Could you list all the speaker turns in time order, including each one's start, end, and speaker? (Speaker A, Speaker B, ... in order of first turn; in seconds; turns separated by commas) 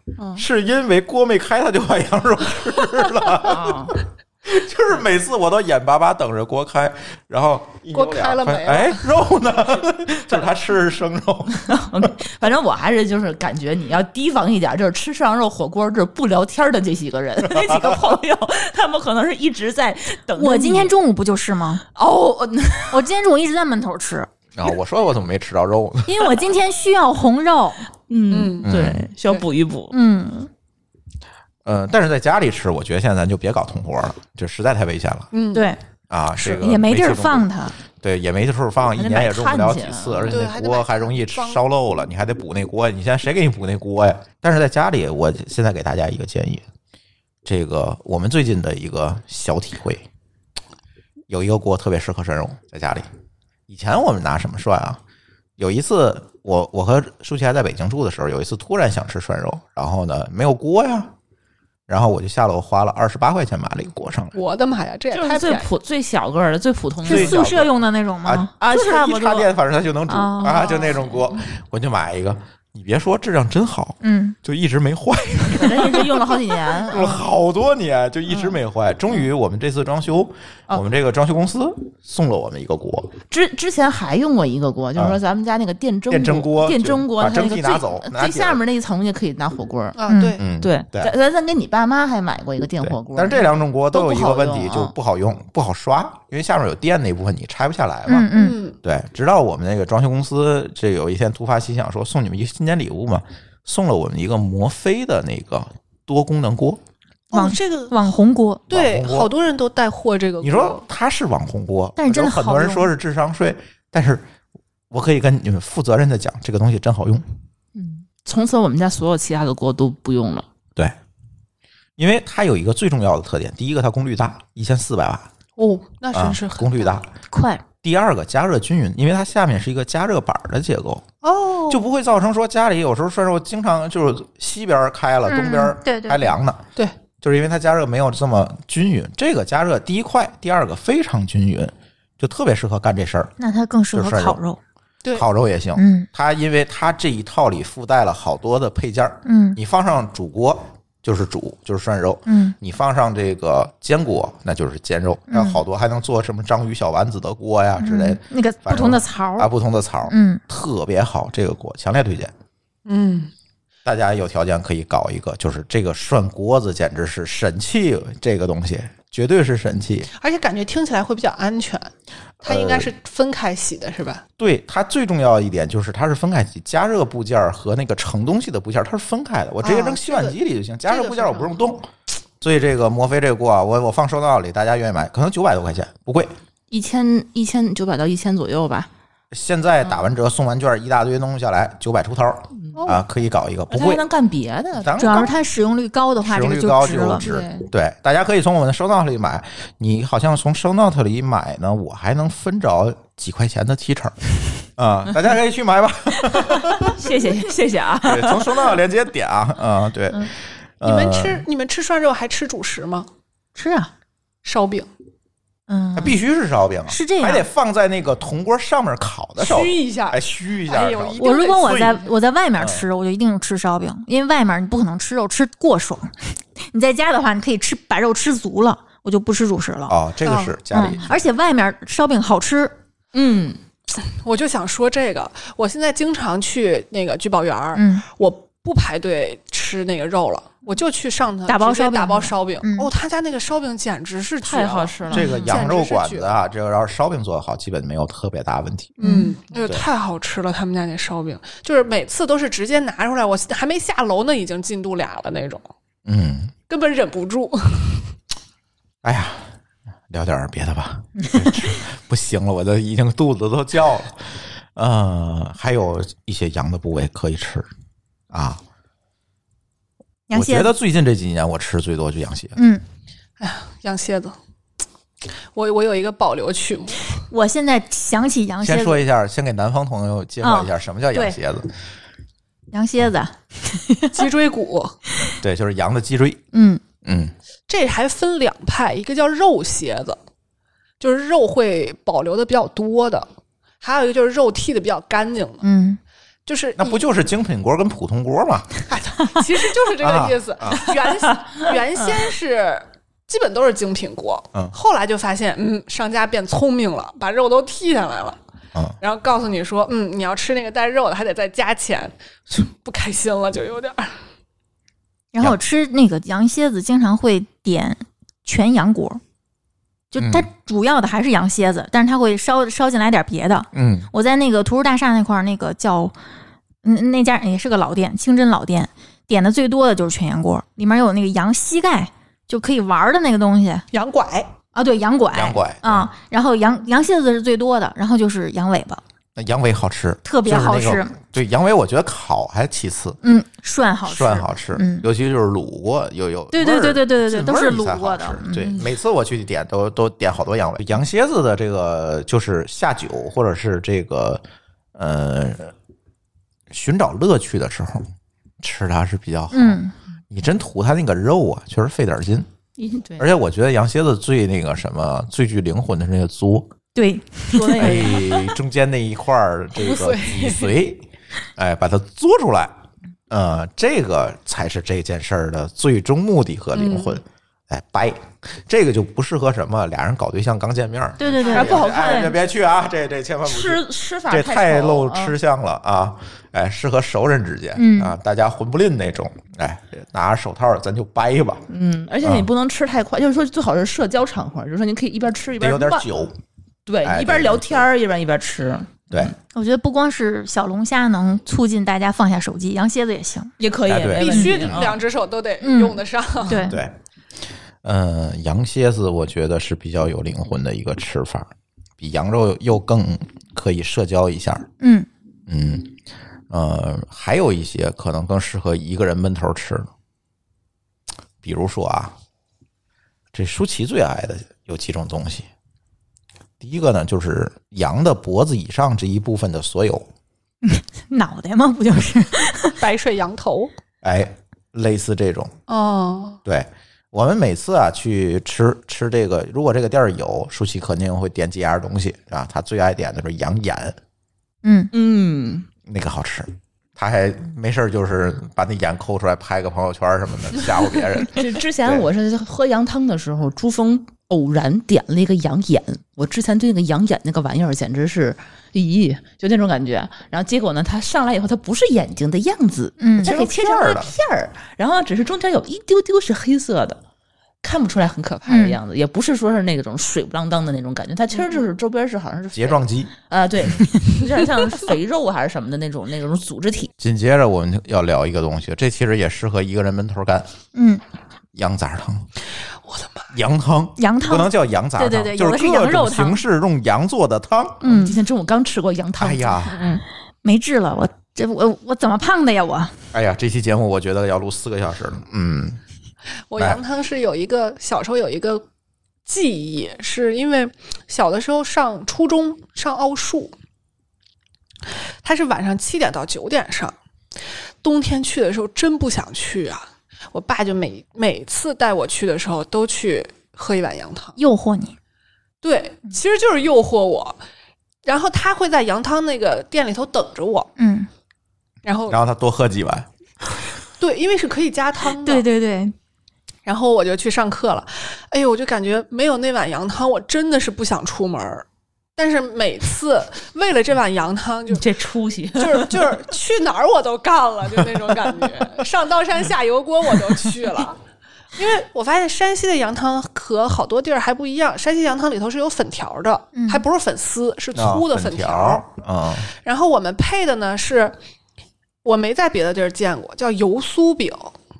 Speaker A: 0.3-11.8, Speaker B: 3.2-4.0, Speaker C: 7.9-9.1, Speaker B: 11.6-20.9, Speaker A: 17.6-17.9, Speaker D: 20.4-21.8, Speaker B: 21.9-23.0, Speaker D: 22.9-24.3, Speaker A: 24.5-26.4, Speaker D: 26.1-27.9, Speaker B: 28.1-29.9, Speaker C: 28.3-28.7, Speaker A: 28.6-29.1, Speaker D: 29.9-30.5, Speaker A: 31.6-35.3, Speaker C: 35.3-35.7, Speaker D: 35.5-35.8, Speaker A: 36.1-37.5, Speaker D: 36.4-37.8, Speaker A: 38.0-46.6, Speaker B: 38.9-40.4, Speaker C: 40.2-41.6, Speaker A: 47.4-50.0, Speaker A: 51.3-53.1, Speaker A: 53.7-55.0, Speaker A: 55.6-61.1, Speaker A: 61.9-64.3, Speaker C: 64.3-65.7, Speaker B: 65.1-67.4, Speaker D: 67.0-68.5, Speaker A: 67.0-83.1, Speaker B: 68.6-69.5, Speaker D: 70.1-70.8, Speaker B: 70.4-71.2, Speaker D: 74.0-74.4, Speaker B: 75.5-77.2, Speaker B: 78.3-78.5, Speaker B: 83.3-90.0, Speaker A: 86.1-88.6, Speaker C: 89.9-90.4, Speaker D: 90.1-90.4, Speaker A: 90.4-91.1, Speaker B: 90.6-94.9, Speaker A: 92.8-98.3, Speaker D: 98.0-98.6, Speaker C: 98.3-98.8, Speaker A: 98.8-106.8, Speaker C: 107.3-108.0, Speaker D: 107.3-108.6, Speaker A: 108.7-109.3, Speaker C: 108.7-110.8, Speaker A: 110.4-114.2, Speaker D: 112.0-112.9, Speaker A: 114.9-117.2, Speaker B: 117.8-120.5, Speaker A: 122.0-125.3, Speaker C: 125.6-127.0, Speaker A: 126.1-127.1, Speaker D: 127.3-127.6, Speaker A: 127.8-131.0, Speaker C: 131.2-131.8, Speaker A: 131.7-136.6, Speaker D: 135.3-136.3, Speaker A: 137.2-143.3, Speaker D: 143.4-144.6, Speaker A: 143.9-144.4, Speaker A: 145.1-162.3, Speaker D: 145.8-146.1, Speaker D: 149.2-149.6, Speaker D: 152.2-152.6, Speaker D: 155.3-155.6, Speaker D: 157.8-159.5, Speaker D: 160.1-160.4, Speaker C: 162.8-163.3, Speaker A: 163.8-170.1, Speaker C: 170.1-171.9, Speaker C: 172.4-174.2, Speaker A: 172.4-172.9, Speaker A: 174.4-181.9, Speaker C: 179.6-181.5, Speaker A: 182.4-186.3, Speaker B: 186.7-188.9, Speaker A: 189.3-194.0, Speaker B: 192.6-192.8, Speaker B: 193.7-195.2, Speaker A: 194.8-195.3, Speaker D: 194.9-197.3, Speaker A: 196.2-207.1, Speaker B: 196.8-197.7, Speaker B: 206.8-208.8, Speaker A: 208.0-211.4, Speaker C: 210.8-213.1, Speaker D: 213.6-213.9, Speaker C: 214.4-214.9, Speaker D: 215.7-216.2, Speaker A: 215.9-221.9, Speaker D: 216.9-217.4, Speaker C: 219.4-222.0, Speaker D: 221.2-229.9, Speaker A: 222.6-222.8, Speaker A: 229.9-231.1, Speaker C: 230.2-230.6, Speaker D: 230.7-232.8, Speaker B: 233.1-233.6, Speaker C: 233.9-246.4, Speaker D: 237.7-238.0, Speaker D: 241.5-242.9, Speaker B: 244.4-245.3, Speaker A: 245.1-249.0, Speaker D: 245.3-245.6, Speaker C: 249.0-255.6, Speaker D: 249.0-249.4, Speaker A: 256.1-256.5, Speaker C: 256.7-258.1, Speaker A: 259.0-259.6, Speaker A: 260.1-267.7, Speaker D: 261.2-261.5, Speaker A: 268.3-268.6, Speaker D: 270.3-270.7, Speaker A: 270.3-272.6, Speaker D: 272.6-272.8, Speaker C: 273.4-274.4, Speaker C: 275.5-277.2, Speaker D: 277.3-279.0, Speaker A: 278.6-281.7, Speaker D: 280.4-281.4, Speaker D: 282.7-284.3, Speaker C: 284.1-285.0, Speaker A: 285.4-286.4, Speaker D: 286.5-286.8, Speaker A: 287.0-287.3, Speaker C: 287.7-290.2, Speaker C: 291.0-293.3, Speaker C: 293.8-295.6, Speaker D: 295.6-296.0, Speaker C: 296.4-297.0, Speaker A: 296.8-298.7, Speaker C: 298.9-308.4, Speaker A: 300.0-300.9, Speaker C: 309.0-314.2, Speaker D: 315.3-319.2, Speaker D: 320.1-326.1, Speaker A: 320.2-320.5, Speaker A: 323.7-324.1, Speaker D: 326.8-333.8, Speaker C: 333.9-334.5, Speaker D: 334.7-339.0, Speaker A: 335.3-336.1, Speaker A: 339.4-343.2, Speaker D: 340.2-341.1, Speaker D: 343.2-345.1, Speaker A: 344.1-354.4, Speaker D: 346.5-348.7, Speaker A: 354.9-355.7, Speaker A: 356.7-362.5, Speaker D: 359.5-359.9, Speaker B: 362.8-363.2, Speaker A: 363.1-366.7, Speaker D: 366.9-368.3, Speaker B: 367.5-368.2, Speaker A: 367.8-372.7, Speaker C: 369.8-370.7, Speaker A: 373.3-391.6, Speaker C: 376.7-377.2, Speaker D: 381.2-382.3, Speaker B: 381.5-382.3, Speaker B: 383.4-385.3, Speaker D: 387.7-388.1, Speaker B: 391.7-396.1, Speaker A: 392.2-392.5, Speaker A: 395.6-396.3, Speaker B: 396.9-399.3, Speaker A: 397.0-397.9, Speaker D: 399.5-403.5, Speaker B: 403.6-405.0, Speaker A: 403.9-404.9, Speaker C: 404.1-406.7, Speaker D: 404.2-404.6, Speaker D: 405.6-406.8, Speaker A: 406.6-406.9, Speaker A: 407.8-414.7, Speaker D: 414.8-415.1, Speaker A: 415.5-415.9, Speaker A: 416.5-419.9, Speaker A: 421.4-422.1, Speaker A: 423.3-425.4, Speaker A: 426.6-430.1, Speaker D: 430.6-432.8, Speaker C: 432.8-433.7, Speaker A: 434.0-435.5, Speaker C: 435.7-436.4, Speaker A: 436.4-444.0, Speaker D: 444.6-444.9, Speaker B: 444.9-445.7, Speaker A: 445.9-452.1, Speaker B: 451.3-467.0, Speaker D: 463.0-463.3, Speaker A: 463.2-464.1, Speaker B: 467.6-476.9, Speaker D: 468.4-468.8, Speaker C: 471.3-471.7, Speaker A: 472.5-473.1, Speaker A: 477.0-480.5, Speaker D: 480.7-481.0, Speaker A: 481.5-482.3, Speaker C: 482.9-483.2, Speaker A: 483.3-487.8, Speaker D: 484.0-486.4, Speaker D: 487.8-488.2, Speaker B: 487.8-490.0, Speaker A: 489.2-489.9, Speaker D: 490.4-493.0, Speaker A: 493.1-495.8, Speaker C: 496.5-498.6, Speaker C: 499.2-503.5, Speaker C: 505.2-506.9, Speaker C: 507.8-514.4, Speaker D: 514.4-514.9, Speaker C: 515.6-517.4, Speaker C: 518.0-520.7, Speaker D: 520.8-521.1, Speaker C: 521.8-522.2, Speaker A: 522.1-523.1, Speaker C: 524.0-525.5, Speaker D: 525.2-525.9, Speaker C: 526.6-531.6, Speaker C: 532.2-534.9, Speaker B: 534.7-536.0, Speaker C: 535.5-541.0, Speaker C: 541.5-548.9, Speaker D: 546.5-546.8, Speaker A: 547.7-549.5, Speaker C: 549.5-551.2, Speaker C: 552.0-554.5